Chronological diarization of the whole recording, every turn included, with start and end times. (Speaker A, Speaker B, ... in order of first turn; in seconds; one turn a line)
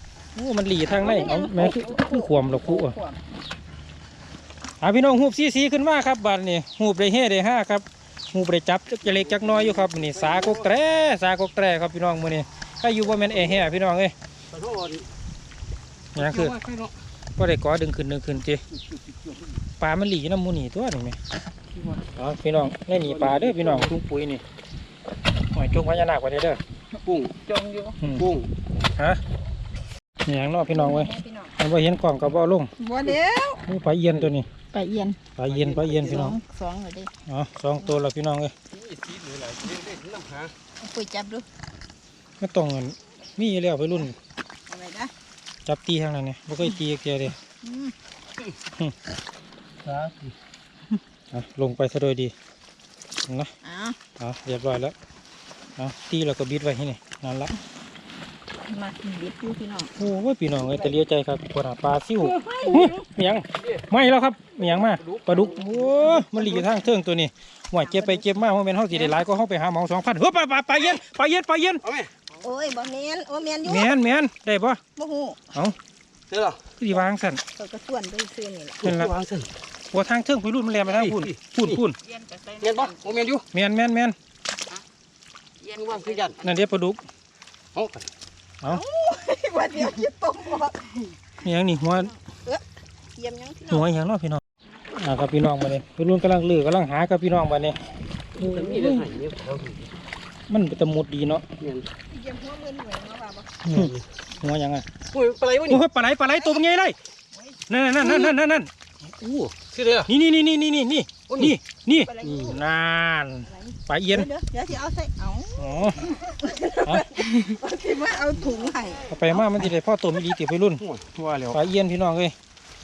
Speaker A: 0.4-3.0
Speaker B: 0.9-3.2
Speaker A: 4.8-14.1
Speaker C: 9.2-10.7
Speaker C: 14.5-15.1
Speaker C: 16.1-16.9
Speaker A: 16.2-16.6
Speaker A: 17.4-18.6
Speaker C: 19.0-19.5
Speaker A: 19.8-21.2
Speaker C: 21.8-22.0
Speaker A: 22.2-24.4
Speaker C: 23.0-23.9
Speaker A: 25.5-26.6
Speaker C: 27.1-27.4
Speaker D: 27.4-28.0
Speaker A: 28.0-28.3
Speaker C: 28.2-28.5
Speaker A: 30.3-32.7
Speaker B: 30.7-31.5
Speaker B: 32.8-33.6
Speaker A: 33.7-34.5
Speaker B: 34.7-35.2
Speaker A: 35.4-36.4
Speaker C: 35.5-36.4
Speaker B: 36.0-37.1
Speaker A: 37.3-38.5
Speaker C: 38.7-40.5
Speaker B: 40.8-41.5
Speaker A: 42.4-44.2
Speaker B: 44.7-45.1
Speaker A: 45.7-47.4
Speaker B: 47.6-47.9
Speaker C: 49.8-50.3
Speaker A: 51.3-52.3
Speaker B: 53.6-54.0
Speaker A: 54.2-55.0
Speaker A: 55.8-57.5
Speaker B: 58.7-59.9
Speaker A: 60.0-71.8
Speaker B: 62.2-63.0
Speaker C: 63.6-63.9
Speaker C: 64.6-66.7
Speaker B: 67.8-68.3
Speaker C: 71.8-72.1
Speaker B: 72.4-74.0
Speaker A: 73.7-74.8
Speaker B: 75.0-75.4
Speaker C: 76.3-76.6
Speaker A: 76.8-77.4
Speaker B: 76.9-78.9
Speaker C: 78.8-79.5
Speaker A: 78.8-79.1
Speaker A: 79.9-82.0
Speaker C: 80.9-81.8
Speaker D: 82.0-83.1
Speaker C: 82.6-83.4
Speaker A: 83.5-84.2
Speaker D: 85.6-86.5
Speaker C: 85.8-86.4
Speaker A: 86.4-87.0
Speaker C: 87.7-88.1
Speaker B: 88.7-90.9
Speaker A: 91.4-92.1
Speaker B: 91.9-92.6
Speaker B: 93.2-93.9
Speaker A: 93.7-94.4
Speaker A: 94.9-97.8
Speaker C: 98.4-99.9
Speaker A: 98.4-99.1
Speaker A: 100.5-101.5
Speaker C: 101.6-101.9
Speaker B: 102.1-103.6
Speaker A: 103.7-104.9
Speaker C: 103.7-104.0
Speaker C: 105.1-105.8
Speaker A: 105.7-107.0
Speaker A: 107.7-109.5
Speaker C: 109.7-110.1
Speaker A: 110.1-114.3
Speaker C: 111.3-111.5
Speaker B: 111.9-112.6
Speaker C: 112.2-112.6
Speaker B: 113.5-119.2
Speaker A: 115.6-116.0
Speaker A: 116.9-117.1
Speaker A: 119.1-120.8
Speaker C: 120.8-121.6
Speaker A: 121.5-122.3